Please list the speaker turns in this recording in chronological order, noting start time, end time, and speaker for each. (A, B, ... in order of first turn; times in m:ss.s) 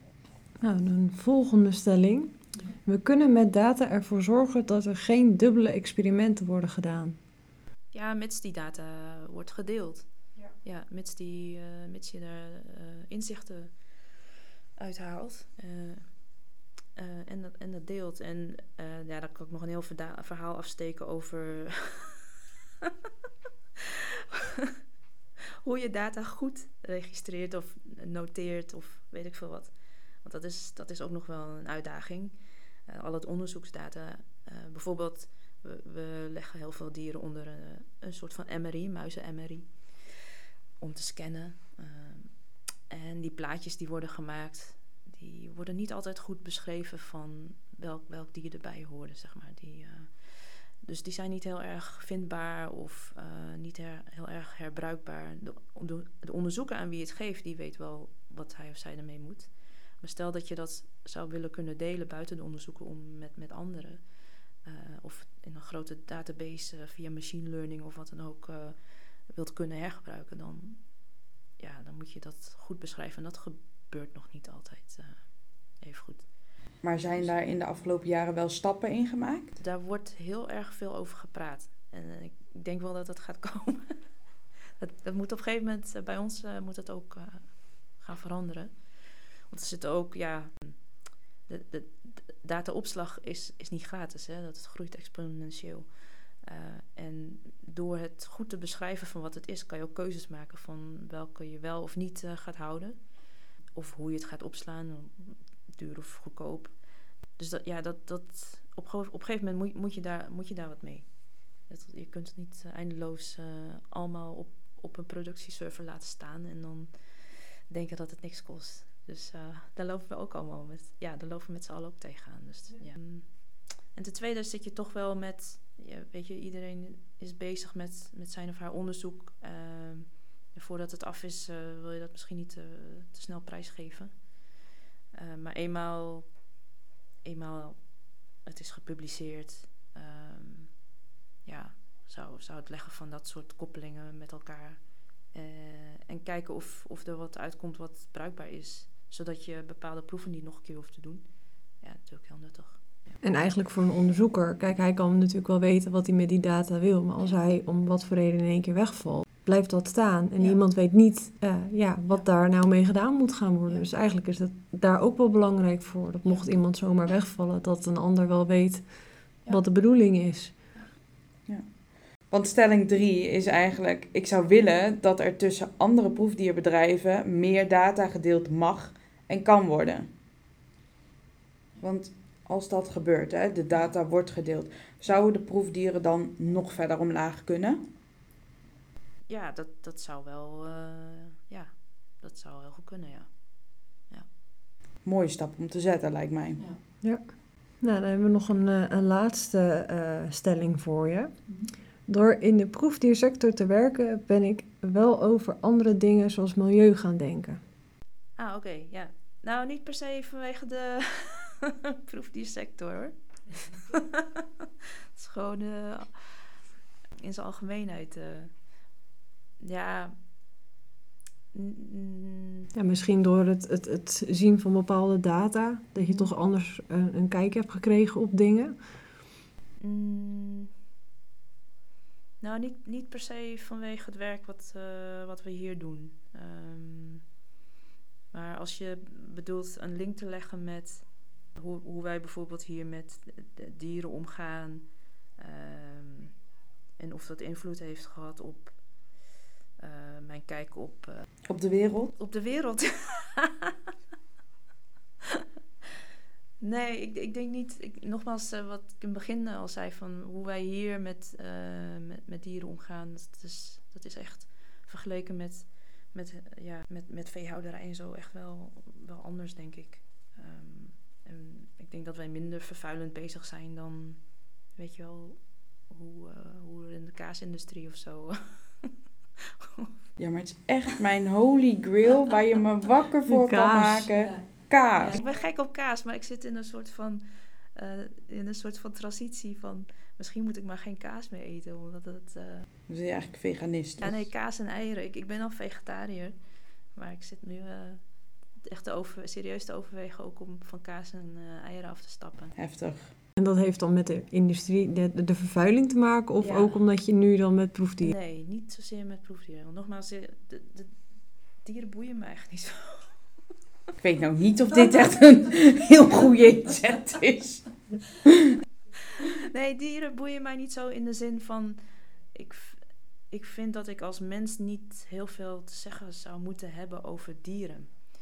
0:00.6-0:07.2 A
0:07.9-0:13.8 B
0:14.8-0:16.3 B
0:16.9-0:22.2 B
0:25.6-0:40.2 B
0:40.8-1:04.1 B
1:04.6-1:11.0 B
1:11.6-1:16.3 B
1:16.8-1:19.5 C
1:19.6-1:24.1 B
1:24.8-1:43.1 B
1:43.7-1:46.8 B
1:47.3-2:14.3 B
2:15.1-2:16.4 B
2:17.2-2:20.8 B
2:21.4-2:31.2 B
2:31.8-2:33.1 B
2:33.2-2:50.6 A
2:52.3-3:00.1 C
3:01.8-3:07.8 C
3:09.3-3:14.3 B
3:15.0-3:16.7 C
3:17.0-3:27.6 A
3:21.5-3:21.7 B
3:28.4-3:34.2 B
3:35.1-3:36.6 B
3:37.2-3:38.5 B
3:39.6-3:40.2 B
3:41.5-3:42.7 B
3:42.7-3:49.0 A
3:46.0-3:46.3 B
3:49.8-3:50.7 B
3:52.4-3:57.2 B
3:58.3-4:06.4 B
4:07.0-4:08.8 B
4:09.8-4:11.2 B
4:11.5-4:12.1 C
4:12.1-4:13.7 B
4:16.6-4:38.9 B
4:39.6-4:39.9 B
4:40.2-4:45.2 C
4:43.3-4:44.1 A
4:44.2-4:52.7 B
4:52.9-4:54.3 C
4:54.0-4:56.4 B
4:56.9-5:02.5 B
5:02.6-5:03.1 C
5:03.4-5:08.1 A
5:06.4-5:06.8 B
5:08.0-5:11.0 B
5:11.6-5:13.2 B
5:14.0-5:17.7 C
5:18.2-5:18.5 C
5:19.4-5:21.8 B
5:22.3-5:27.9 B